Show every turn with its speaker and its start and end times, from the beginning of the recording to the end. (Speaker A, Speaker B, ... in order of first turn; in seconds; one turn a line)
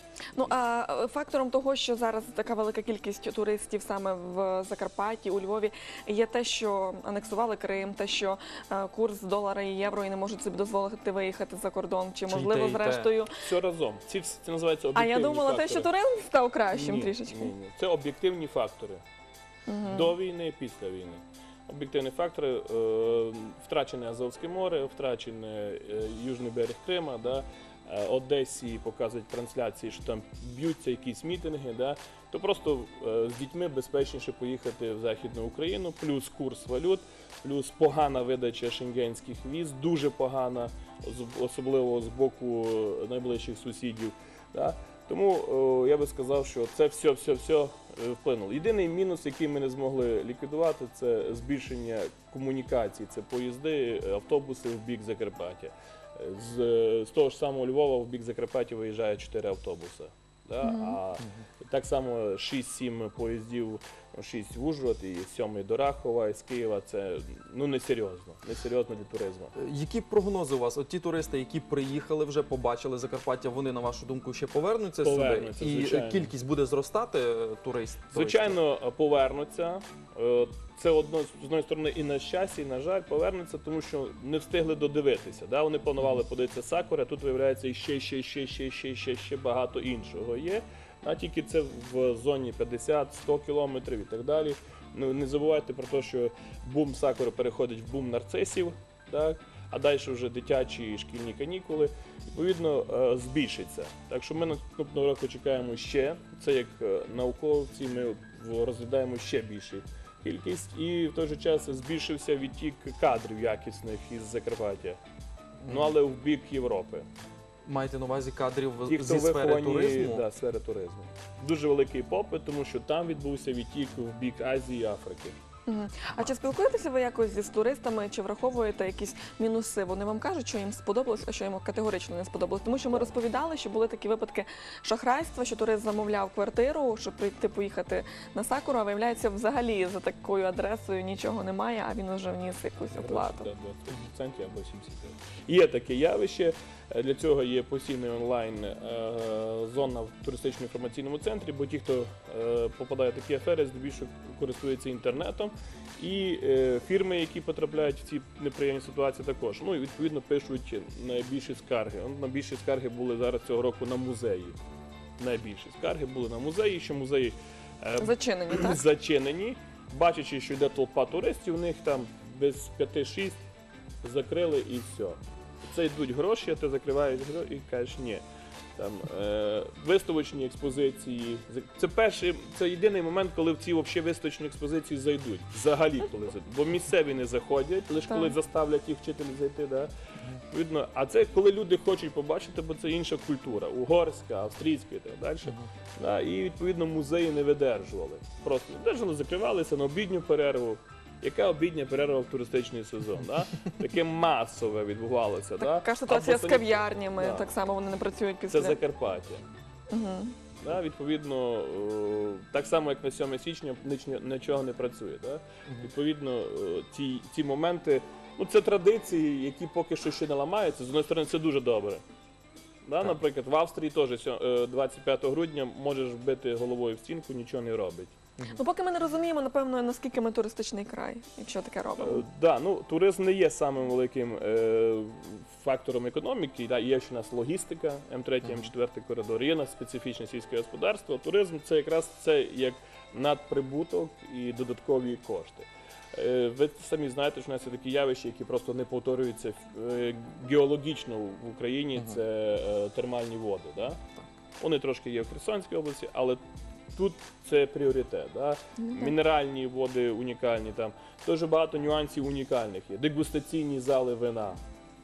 Speaker A: 0.3-13.3
Speaker B: 12.3-13.1
Speaker C: 13.4-15.9
Speaker A: 14.9-17.5
Speaker C: 16.7-19.0
Speaker A: 19.7-20.1
Speaker C: 19.9-69.5
Speaker A: 60.6-61.0
Speaker B: 69.6-78.6
Speaker C: 75.0-76.3
Speaker C: 78.1-115.0
Speaker B: 115.6-116.0
Speaker C: 115.7-117.1
Speaker B: 117.7-120.2
Speaker C: 118.9-125.3
Speaker A: 125.7-143.5
Speaker C: 142.9-164.6
Speaker C: 165.2-173.4
Speaker A: 168.0-168.8
Speaker C: 174.0-178.2
Speaker C: 178.8-189.9
Speaker A: 188.1-188.4
Speaker C: 190.5-207.5
Speaker A: 205.6-208.8
Speaker C: 208.5-209.4
Speaker A: 209.9-210.4
Speaker C: 210.6-222.0
Speaker C: 222.8-228.1
Speaker A: 228.5-232.2
Speaker C: 232.0-254.0
Speaker B: 238.4-238.7
Speaker C: 254.6-256.4
Speaker C: 256.9-264.6
Speaker A: 258.8-259.1